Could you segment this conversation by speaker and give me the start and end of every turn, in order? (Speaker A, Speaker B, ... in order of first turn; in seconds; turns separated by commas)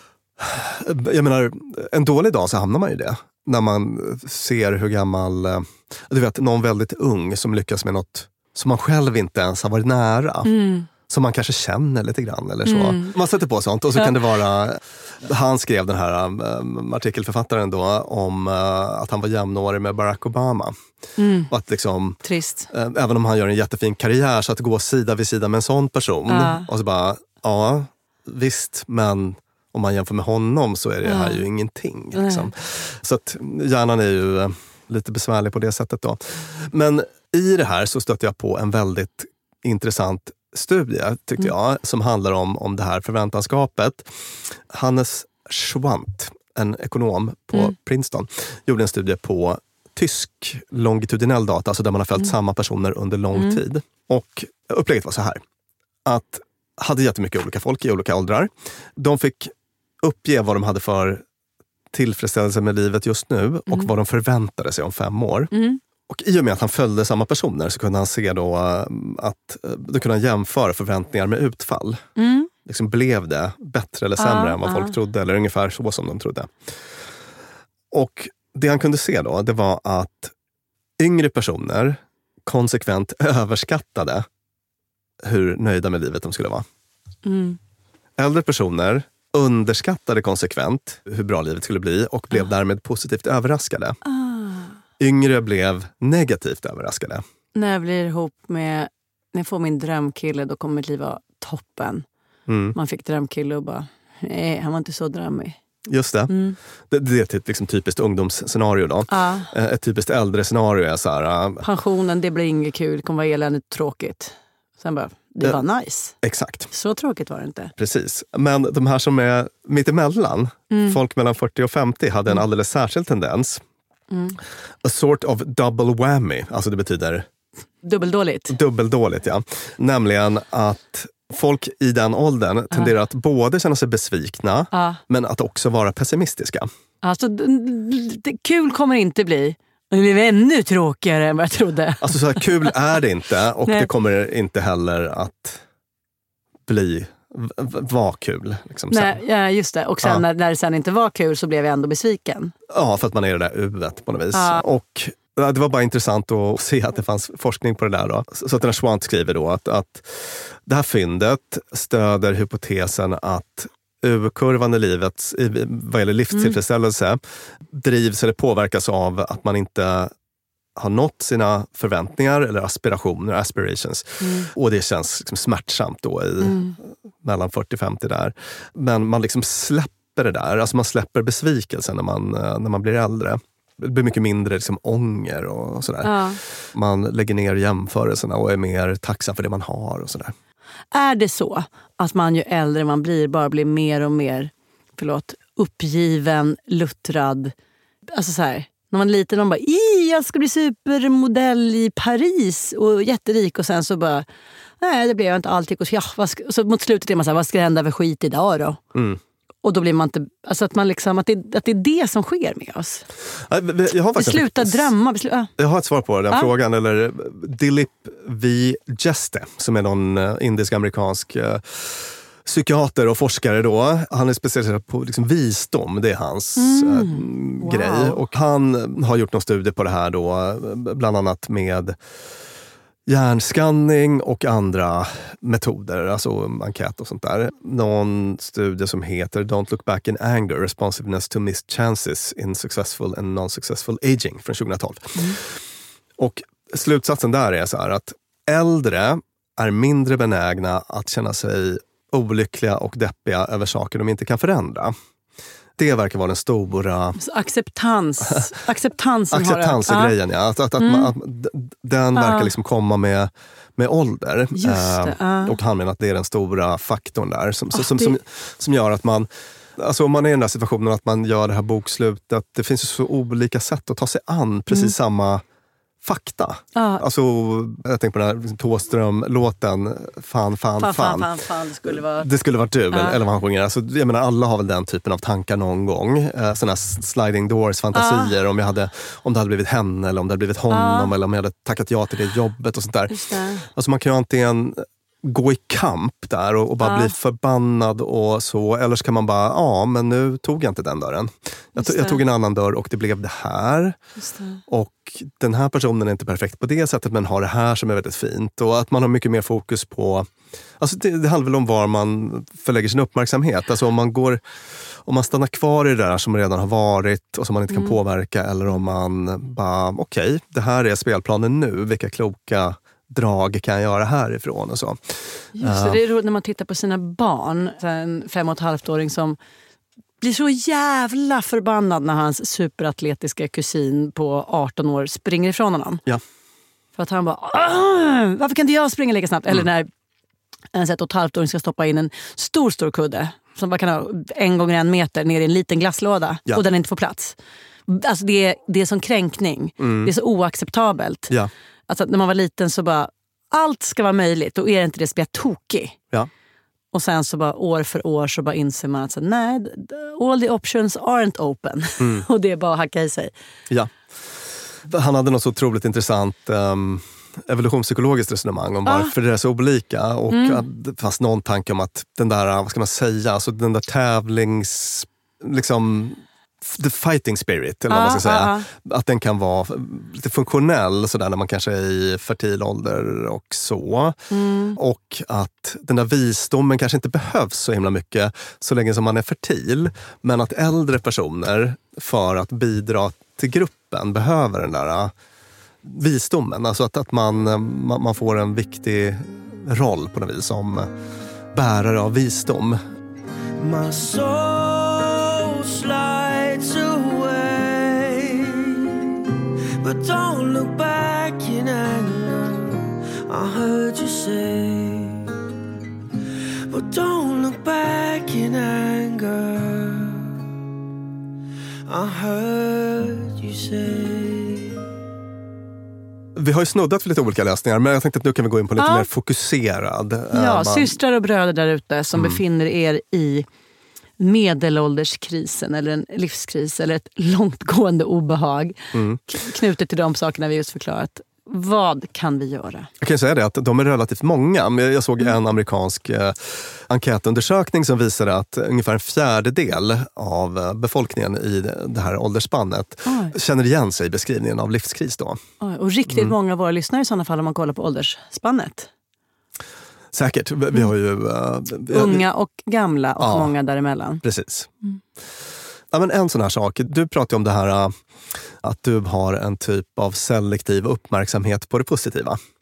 Speaker A: 0.4-10.5, Speaker B: 10.4-10.9, Speaker A: 11.0-20.7, Speaker B: 12.6-13.1, Speaker B: 21.2-21.5, Speaker A: 21.5-22.2, Speaker B: 22.2-22.7, Speaker A: 22.7-55.4, Speaker B: 26.3-26.7, Speaker B: 31.0-31.4, Speaker B: 32.1-32.5, Speaker B: 53.3-53.6, Speaker A: 56.0-61.2, Speaker A: 61.9-65.5, Speaker B: 65.5-65.8, Speaker A: 66.1-72.0, Speaker B: 72.2-72.5, Speaker A: 72.6-76.5, Speaker B: 74.2-74.9, Speaker A: 77.9-80.3, Speaker A: 81.0-84.2, Speaker A: 85.2-86.6, Speaker B: 87.2-87.6, Speaker A: 88.2-94.0, Speaker B: 94.0-94.7, Speaker A: 95.0-97.2, Speaker B: 97.5-102.0, Speaker A: 102.5-102.8, Speaker B: 102.7-105.6, Speaker A: 105.8-106.3, Speaker B: 106.3-106.6, Speaker A: 106.9-111.6, Speaker B: 109.1-109.5, Speaker B: 111.6-116.2, Speaker A: 116.2-116.7, Speaker B: 116.7-117.7, Speaker A: 117.8-123.6, Speaker B: 120.7-121.0, Speaker B: 124.1-124.4, Speaker A: 124.8-127.3, Speaker B: 127.8-128.6, Speaker A: 128.5-136.7, Speaker B: 134.7-135.0, Speaker B: 137.0-142.7, Speaker A: 142.0-145.6, Speaker A: 146.7-149.2, Speaker B: 148.9-152.5, Speaker A: 152.7-170.1, Speaker B: 154.3-154.6, Speaker B: 166.3-166.6, Speaker A: 170.8-176.6, Speaker B: 174.2-174.5, Speaker B: 176.4-176.8, Speaker A: 177.2-190.3, Speaker B: 186.0-186.4, Speaker B: 190.9-197.5, Speaker B: 198.1-204.2, Speaker B: 204.8-208.8, Speaker A: 208.9-209.2, Speaker B: 209.6-213.0, Speaker A: 213.5-214.9, Speaker B: 214.2-215.5, Speaker A: 215.6-232.0, Speaker B: 226.6-228.2, Speaker A: 233.1-245.5, Speaker A: 246.2-254.9, Speaker A: 255.8-257.2, Speaker B: 257.2-260.1, Speaker A: 259.3-275.4, Speaker B: 260.8-261.1, Speaker B: 262.1-262.5, Speaker B: 264.6-265.6, Speaker B: 267.7-268.1, Speaker A: 276.0-281.3, Speaker B: 276.7-277.0, Speaker B: 280.8-282.3, Speaker A: 281.8-293.2, Speaker B: 282.9-283.2, Speaker B: 287.9-288.3, Speaker B: 290.7-291.1, Speaker B: 293.1-293.6, Speaker A: 293.7-304.0, Speaker B: 296.8-297.1, Speaker B: 301.8-302.2, Speaker B: 304.2-304.6, Speaker A: 304.7-310.3, Speaker A: 310.8-314.4, Speaker A: 315.0-326.0, Speaker B: 317.7-318.0, Speaker B: 325.6-329.4, Speaker B: 330.2-336.0, Speaker B: 336.9-339.9, Speaker B: 340.7-351.3, Speaker A: 349.8-350.1, Speaker B: 351.9-356.0, Speaker B: 356.9-363.3, Speaker A: 362.0-362.2, Speaker A: 364.8-384.2, Speaker B: 368.9-369.1, Speaker B: 370.3-370.6, Speaker B: 377.9-378.7, Speaker B: 384.3-384.8, Speaker A: 384.7-395.1, Speaker A: 395.8-400.9, Speaker A: 401.5-402.8, Speaker C: 403.6-408.9, Speaker C: 409.8-415.2, Speaker C: 416.7-420.3, Speaker C: 421.9-424.7, Speaker A: 426.3-430.9, Speaker B: 428.8-429.1, Speaker B: 430.3-433.4, Speaker A: 432.1-432.4, Speaker B: 434.2-442.9, Speaker A: 438.9-439.2, Speaker A: 443.0-455.4, Speaker B: 453.0-453.3, Speaker B: 455.6-458.9, Speaker A: 456.1-456.3, Speaker A: 460.1-462.2, Speaker B: 461.9-464.2, Speaker A: 463.2-463.5, Speaker A: 464.2-464.7, Speaker A: 465.9-467.9, Speaker A: 468.6-472.4